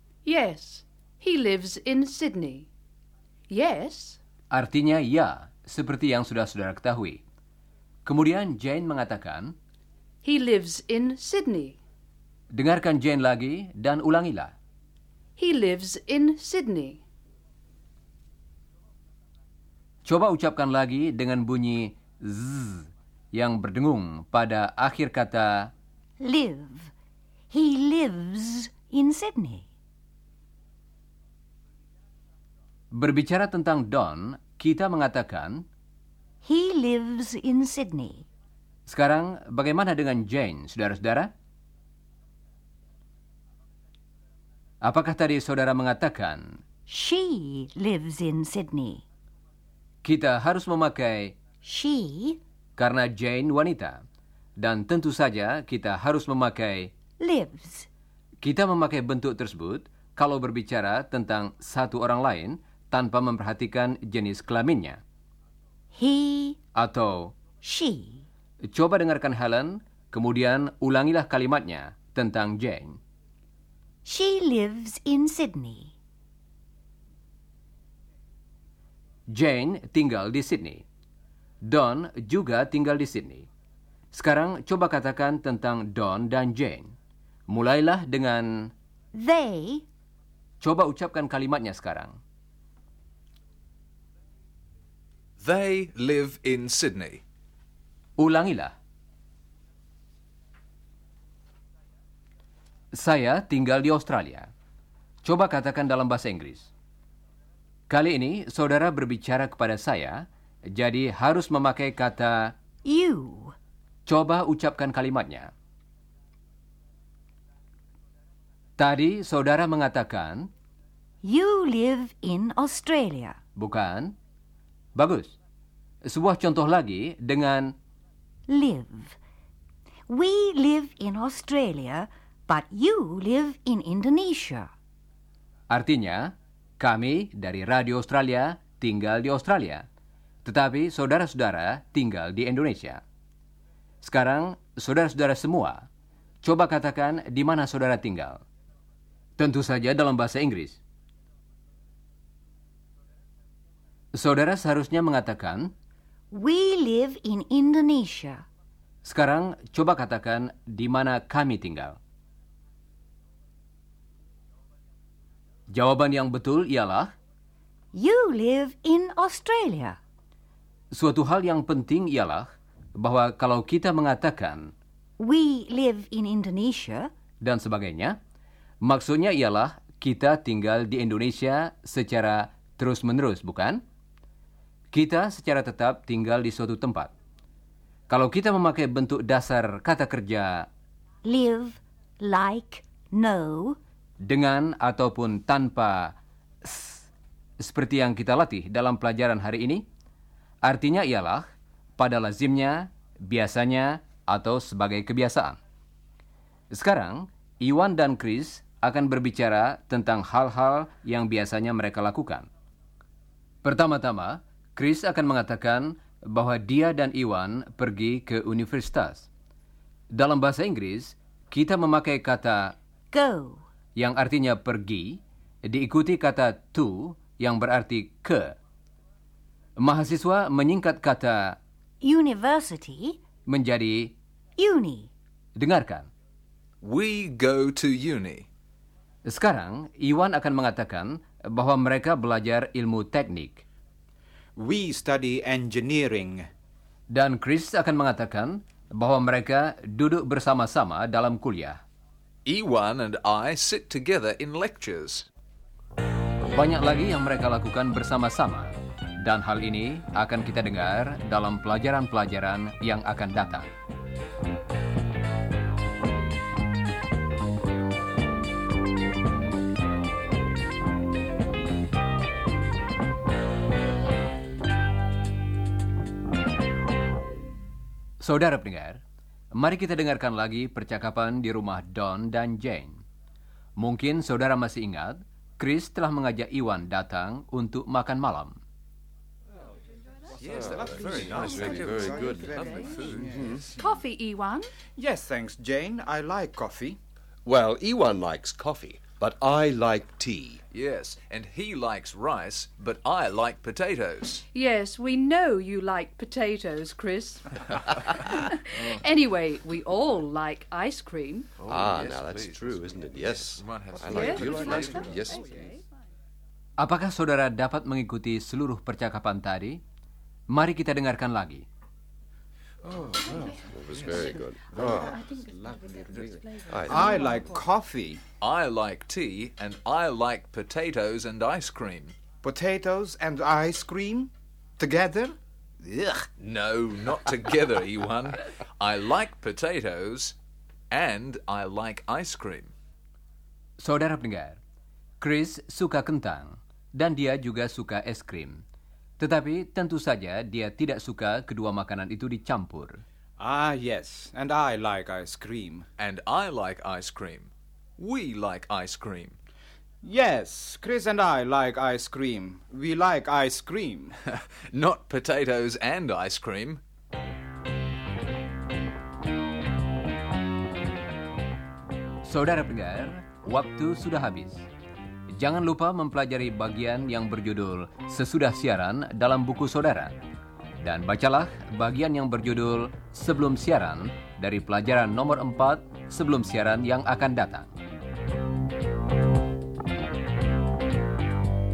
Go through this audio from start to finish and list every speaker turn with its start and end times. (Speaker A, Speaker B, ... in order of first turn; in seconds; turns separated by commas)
Speaker A: 0.2-2.7, Speaker A: 3.5-4.2, Speaker B: 4.5-7.2, Speaker B: 8.1-9.5, Speaker A: 10.2-11.8, Speaker B: 12.5-14.5, Speaker A: 15.4-17.0, Speaker B: 20.0-25.7, Speaker C: 26.2-26.9, Speaker C: 27.5-29.6, Speaker B: 32.9-35.6, Speaker C: 36.4-38.2, Speaker B: 38.9-41.3, Speaker B: 44.8-46.6, Speaker C: 46.9-49.0, Speaker B: 50.0-51.4, Speaker C: 51.6-52.4, Speaker B: 52.8-54.0, Speaker B: 54.6-56.9, Speaker C: 57.2-57.9, Speaker B: 58.4-65.0, Speaker C: 65.9-66.6, Speaker B: 66.7-67.3, Speaker C: 67.6-68.2, Speaker B: 68.7-73.0, Speaker C: 74.0-75.9, Speaker B: 79.3-80.8, Speaker B: 81.6-83.5, Speaker B: 84.1-86.9, Speaker B: 87.5-88.7, Speaker C: 89.1-89.8, Speaker B: 90.6-92.2, Speaker D: 95.4-97.2, Speaker B: 98.2-98.7, Speaker B: 102.9-104.5, Speaker B: 105.2-106.7, Speaker B: 107.9-112.5, Speaker C: 112.8-113.5, Speaker B: 114.0-115.5, Speaker B: 118.8-120.5, Speaker C: 121.2-123.4, Speaker B: 123.5-124.1, Speaker B: 124.9-125.3, Speaker B: 126.0-127.7, Speaker C: 128.5-129.2, Speaker C: 130.1-134.7, Speaker B: 135.7-139.8, Speaker B: 140.4-143.0, Speaker B: 144.0-145.9, Speaker B: 146.4-148.4, Speaker B: 149.4-150.8, Speaker B: 154.1-155.7, Speaker C: 156.3-158.4, Speaker B: 159.0-162.0, Speaker B: 165.7-167.1, Speaker C: 167.9-170.0, Speaker B: 170.9-174.7, Speaker C: 175.2-177.1, Speaker B: 177.4-178.2, Speaker B: 178.8-183.8, Speaker B: 184.9-187.1, Speaker B: 188.1-190.7, Speaker C: 191.2-193.8, Speaker B: 194.2-197.0, Speaker B: 197.6-199.8, Speaker B: 200.6-201.4, Speaker B: 202.0-205.6, Speaker B: 206.7-212.5, Speaker B: 213.6-219.3, Speaker B: 220.1-222.8, Speaker C: 223.1-223.6, Speaker B: 223.9-228.6, Speaker B: 229.8-231.6, Speaker C: 232.0-233.2, Speaker B: 233.4-234.1, Speaker C: 234.6-235.1, Speaker B: 235.6-236.1, Speaker D: 236.8-238.5, Speaker B: 239.2-243.6, Speaker E: 244.6-246.5, Speaker B: 247.1-251.8, Speaker D: 252.4-255.3, Speaker B: 256.5-263.7, Speaker B: 278.2-279.0, Speaker B: 279.5-283.0, Speaker B: 283.8-288.6, Speaker D: 290.4-293.5, Speaker F: 290.5-293.7, Speaker E: 290.8-293.5, Speaker A: 293.8-294.7, Speaker E: 294.9-297.0, Speaker F: 297.4-300.6, Speaker D: 300.7-304.4, Speaker A: 304.5-311.5, Speaker D: 311.6-315.4, Speaker F: 311.6-315.6, Speaker A: 314.1-315.8, Speaker B: 316.8-319.8, Speaker B: 320.5-321.6, Speaker F: 322.9-325.2, Speaker F: 326.6-327.3, Speaker E: 326.9-328.2, Speaker D: 328.4-332.1, Speaker E: 332.4-336.3, Speaker D: 336.4-340.4, Speaker D: 340.9-342.7, Speaker B: 343.8-344.6, Speaker B: 345.2-348.6, Speaker B: 349.2-353.0, Speaker E: 353.4-355.9, Speaker D: 356.0-359.4, Speaker E: 360.0-364.1, Speaker D: 364.3-366.8, Speaker B: 372.2-374.6, Speaker B: 375.3-380.1, Speaker B: 380.8-387.7